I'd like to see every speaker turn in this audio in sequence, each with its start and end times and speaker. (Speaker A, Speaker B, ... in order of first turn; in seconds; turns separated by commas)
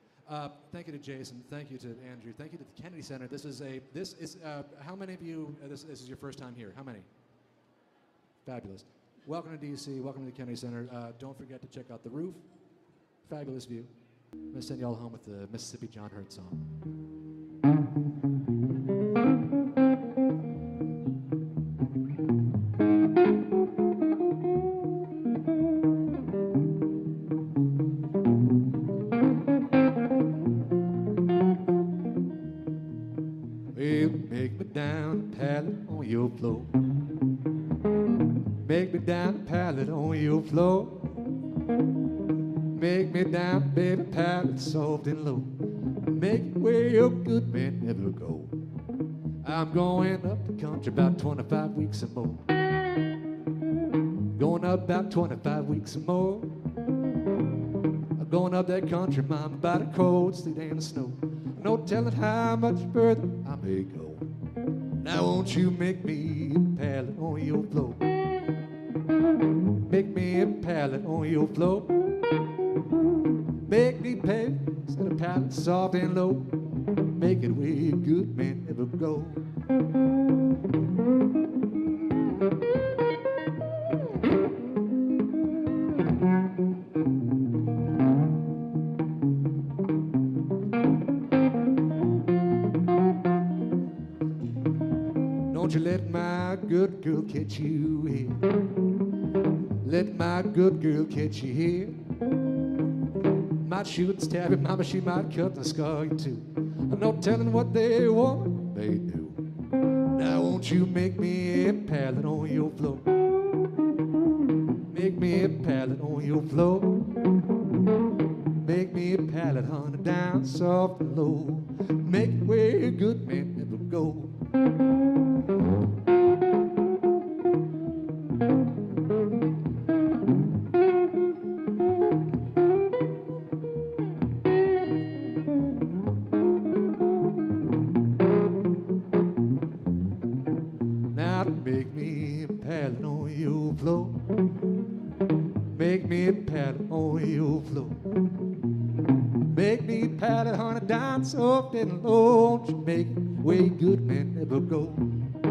Speaker A: 0.3-7.1, Speaker A: 8.4-12.4, Speaker A: 13.2-13.9, Speaker A: 14.5-16.6, Speaker A: 33.7-36.7, Speaker A: 38.6-41.1, Speaker A: 42.7-45.5, Speaker A: 46.1-48.5, Speaker A: 49.4-52.5, Speaker A: 54.4-56.5, Speaker A: 58.2-64.3, Speaker A: 65.0-68.1, Speaker A: 69.9-72.3, Speaker A: 73.7-79.5, Speaker A: 95.5-98.4, Speaker A: 99.8-102.1, Speaker A: 103.6-109.4, Speaker A: 110.1-113.1, Speaker A: 114.9-117.2, Speaker A: 118.6-124.3, Speaker A: 141.1-144.2, Speaker A: 145.7-148.0, Speaker A: 149.5-155.1